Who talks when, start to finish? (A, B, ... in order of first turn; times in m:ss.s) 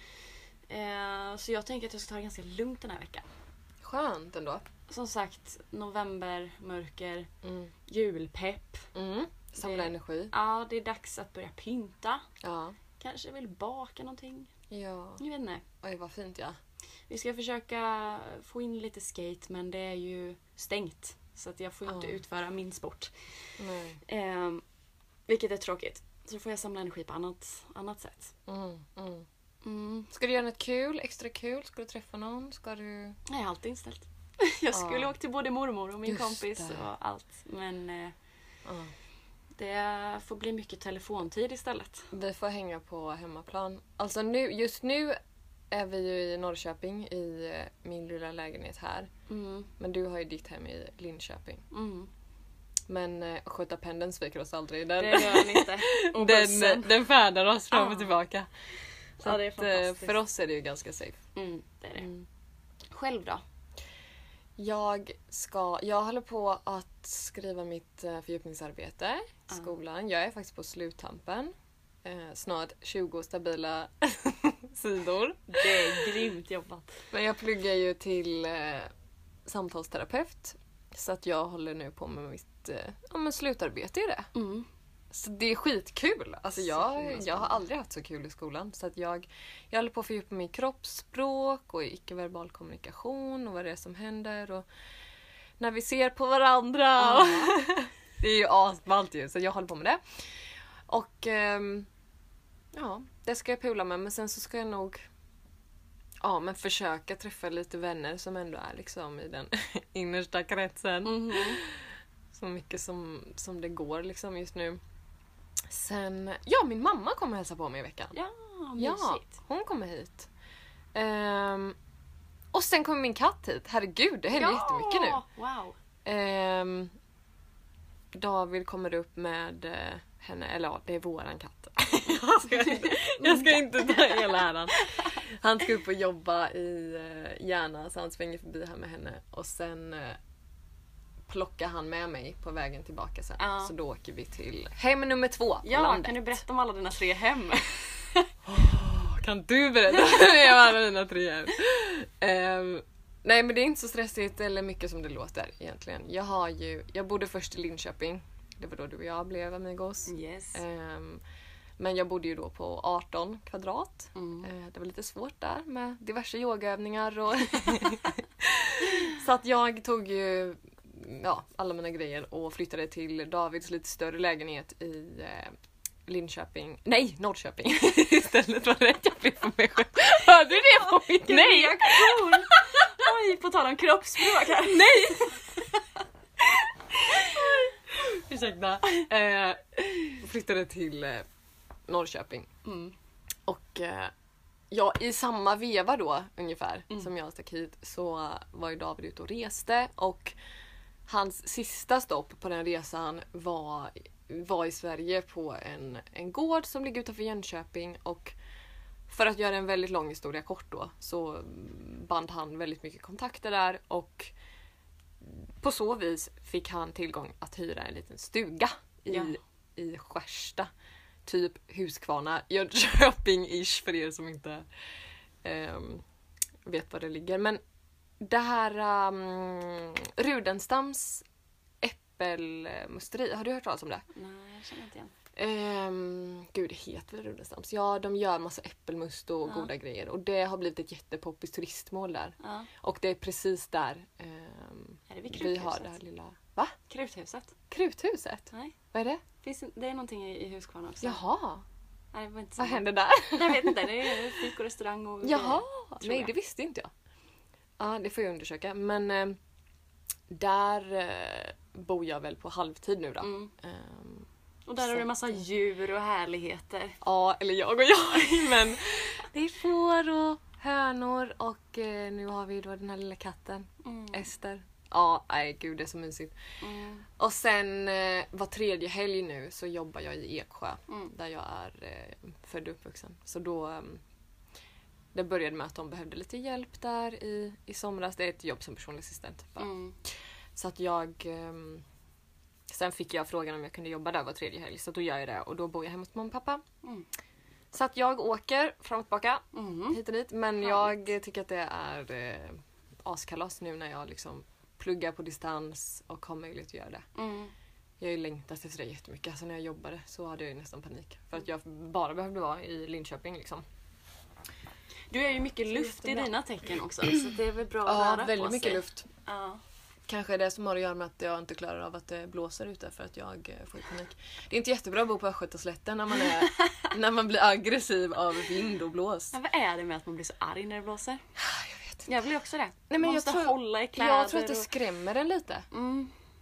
0:00.7-0:03.2 A
0:03.8-0:04.6 B
0:04.9-0:07.3 A
0:07.4-0:07.7 B
0:07.9-0:08.9 A
0:08.9-0:10.3 B
0:09.6-0:12.2 A
0:12.4-0:12.8 B
0:13.0-0:14.5 A
0:14.7-0:15.2 B
0:15.2-0:15.6 A
0:15.8-0:16.6 B
0:17.1-0:23.1 A
0:21.9-0:22.2 B
0:23.6-0:24.0 B
0:24.0-0:24.6 A
0:25.3-0:28.3 A
0:28.5-0:29.3 B
0:29.6-0:30.1 A
0:30.1-0:33.2 B
0:33.3-0:38.1 A
0:34.7-0:35.1 B
0:36.0-0:36.8 B
0:38.6-0:38.9 B
0:39.6-0:42.1 A
0:42.1-0:45.2 B
0:45.7-0:49.1 B
0:49.3-0:49.7 A
0:49.8-0:51.6 B
0:51.7-0:52.1 A
0:52.9-0:58.5 B
0:55.0-0:57.0 A
0:57.7-0:58.2 A
0:59.2-1:00.2 A
0:59.2-1:01.2 B
1:01.3-1:02.1 A
1:02.9-1:03.4 A
1:04.6-1:11.5 B
1:12.0-1:16.2 B
1:15.5-1:17.0 A
1:17.1-1:18.9 B
1:19.4-1:24.3 B
1:24.3-1:24.6 A
1:25.1-1:34.6 B
1:26.6-1:27.6 A
1:35.6-1:40.0 B
1:37.0-1:37.6 A
1:40.9-1:41.9 B
1:42.7-1:45.0 B
1:46.2-1:54.8 B
1:51.0-1:51.6 A
1:55.7-1:58.1 B
1:58.1-1:59.3 A
1:58.8-2:00.3 B
2:00.9-2:01.8 B
2:02.5-2:05.2 B
2:04.3-2:05.7 A
2:06.0-2:06.9 B
2:08.1-2:20.2 B
2:12.4-2:15.1 A
2:21.3-2:26.4 B
2:23.4-2:23.7 A
2:25.6-2:28.3 A
2:28.4-2:41.2 B
2:40.0-2:40.6 A
2:41.8-2:55.5 B
2:44.1-2:44.5 A
2:56.1-3:02.8 B
3:00.8-3:05.4 A
3:04.4-3:05.3 B
3:06.4-3:11.2 B
3:11.9-3:12.5 B
3:12.6-3:12.9 A
3:13.5-3:14.1 B
3:14.7-3:20.3 B
3:21.1-3:28.3 B
3:29.1-3:34.3 B
3:35.2-3:40.7 B
3:39.1-3:39.4 A
3:41.2-3:44.6 B
3:45.4-3:46.0 B
3:46.6-3:47.6 B
3:48.2-3:51.2 B
3:51.8-3:54.0 B
3:54.1-3:55.1 A
3:55.4-4:06.7 B
3:59.4-3:59.7 A
4:02.4-4:02.7 A
4:05.1-4:05.9 A
4:06.9-4:07.5 A
4:07.7-4:09.2 B
4:09.4-4:11.2 A
4:11.0-4:11.6 B
4:12.1-4:16.3 A
4:12.6-4:14.4 B
4:15.2-4:16.9 B
4:17.8-4:19.4 B
4:20.3-4:24.3 B
4:23.2-4:23.5 A
4:24.7-4:27.0 A
4:27.0-4:36.3 B
4:33.8-4:34.3 A
4:36.6-4:37.0 A
4:37.2-4:44.0 B
4:45.1-4:49.7 B
4:49.6-4:49.9 A
4:50.6-4:51.8 B
4:52.7-4:56.6 B
4:57.7-5:07.0 B
4:59.5-5:00.0 A
5:00.6-5:00.9 A
5:07.1-5:07.5 A
5:08.0-5:13.6 B
5:15.1-5:19.6 A
5:15.7-5:16.3 B
5:17.8-5:19.1 B
5:20.1-5:29.4 B
5:26.6-5:26.9 A
5:29.3-5:31.2 A
5:31.4-5:32.1 B
5:32.1-5:34.7 A
5:32.9-5:35.7 B
5:35.7-5:36.1 A